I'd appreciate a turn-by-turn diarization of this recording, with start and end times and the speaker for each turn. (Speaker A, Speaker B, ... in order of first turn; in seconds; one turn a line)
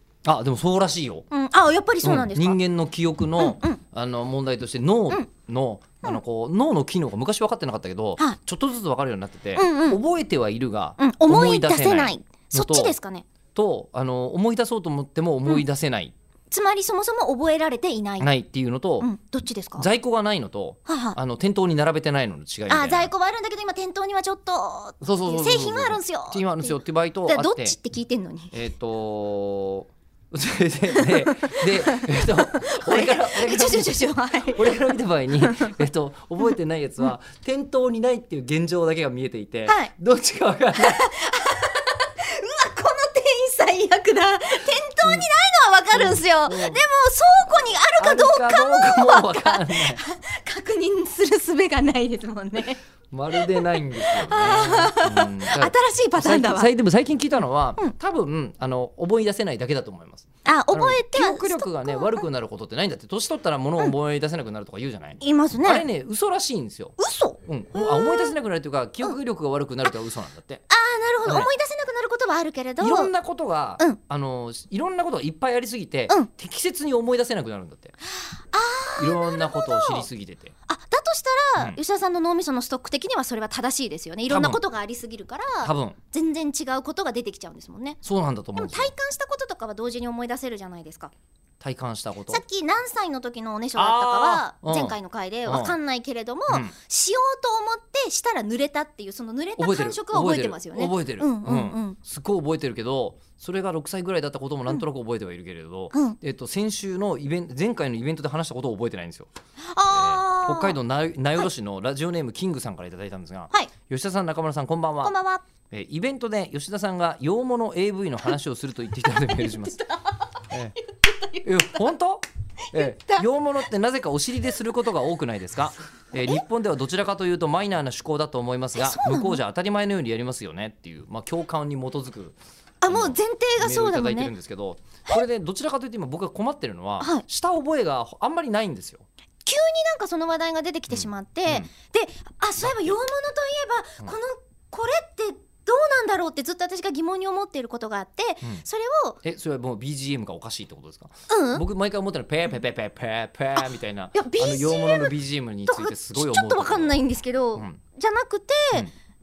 Speaker A: 0.2-1.2
Speaker B: 1.3-2.6
Speaker A: 2.0-12.9
Speaker B: 3.4-3.8
Speaker B: 9.6-10.0
Speaker B: 11.0-13.2
Speaker A: 13.5-16.1
Speaker B: 16.5-18.3
Speaker A: 18.2-19.1
Speaker B: 19.0-19.9
Speaker A: 19.8-23.1
Speaker B: 20.9-21.2
Speaker B: 22.7-28.5
Speaker A: 25.0-27.8
Speaker A: 28.5-41.1
Speaker B: 30.9-35.7
Speaker B: 39.7-39.9
Speaker B: 40.7-52.8
Speaker A: 45.0-45.3
Speaker A: 45.9-46.8
Speaker A: 48.0-50.0
Speaker A: 53.1-70.6
Speaker B: 53.3-56.7
Speaker B: 60.4-62.2
Speaker B: 65.2-65.8
Speaker B: 67.0-68.3
Speaker B: 70.7-73.1
Speaker A: 71.2-71.5
Speaker A: 72.8-77.9
Speaker B: 78.3-80.1
Speaker A: 79.0-80.5
Speaker B: 80.7-88.0
Speaker A: 84.3-84.6
Speaker A: 85.6-86.0
Speaker A: 88.0-88.9
Speaker B: 88.6-91.1
Speaker A: 91.6-92.4
Speaker B: 92.3-102.0
Speaker A: 93.7-95.7
Speaker A: 99.6-109.3
Speaker B: 105.9-106.2
Speaker B: 109.6-110.8
Speaker A: 109.9-115.2
Speaker B: 115.0-115.4
Speaker A: 115.7-119.8
Speaker B: 119.2-120.3
Speaker A: 120.5-120.8
Speaker B: 120.8-121.8
Speaker A: 121.4-139.1
Speaker B: 122.7-123.2
Speaker B: 128.8-129.4
Speaker B: 132.8-134.3
Speaker B: 137.0-137.2
Speaker B: 139.4-149.2
Speaker A: 140.9-141.7
Speaker A: 142.6-142.9
Speaker A: 149.2-157.0
Speaker B: 151.3-151.6
Speaker B: 154.1-155.1
Speaker B: 155.7-158.9